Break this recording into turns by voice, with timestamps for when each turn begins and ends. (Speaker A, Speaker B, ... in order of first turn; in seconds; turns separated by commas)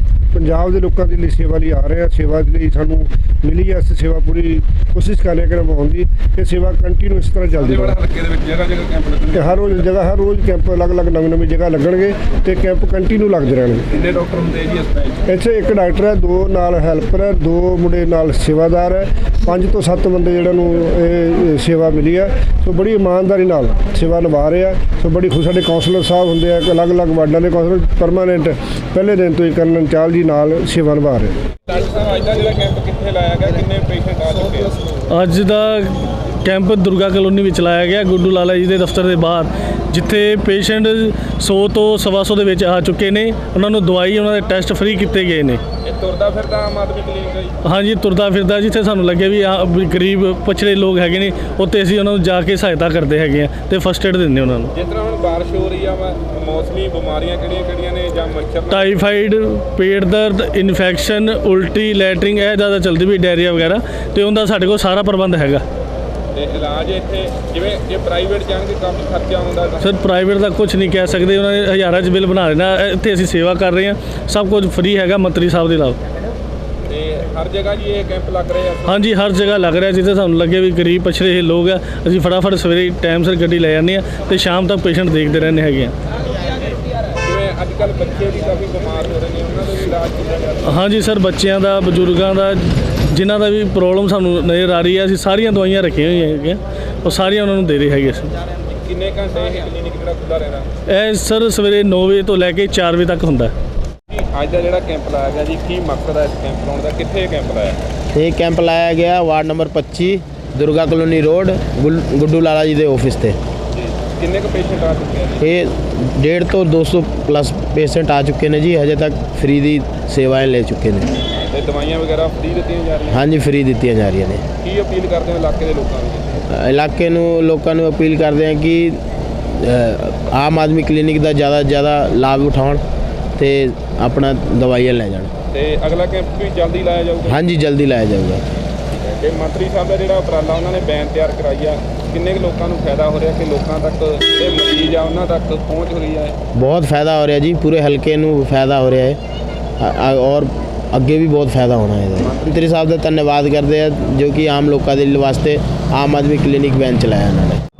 Speaker A: 0.3-8.0, Speaker B: 7.5-9.8, Speaker A: 9.3-13.9, Speaker B: 13.9-15.2, Speaker A: 15.3-31.4, Speaker B: 31.7-34.7, Speaker C: 35.1-45.6, Speaker B: 45.8-47.5, Speaker C: 47.6-54.7, Speaker B: 54.7-59.0, Speaker C: 58.7-65.6, Speaker B: 66.3-70.0, Speaker C: 69.8-76.0, Speaker B: 76.9-79.1, Speaker C: 78.8-85.9, Speaker B: 87.2-90.8, Speaker C: 90.6-98.3, Speaker B: 98.8-100.7, Speaker C: 100.9-103.5, Speaker B: 104.1-107.8, Speaker D: 108.1-113.4, Speaker B: 113.7-115.5, Speaker D: 115.4-121.2, Speaker B: 121.5-123.4, Speaker D: 123.1-124.5, Speaker B: 124.6-126.4, Speaker D: 126.5-132.8, Speaker D: 133.4-135.3, Speaker B: 135.5-137.5, Speaker D: 137.2-138.4, Speaker B: 138.9-146.4, Speaker D: 146.5-149.2, Speaker D: 149.8-157.6, Speaker B: 152.2-152.7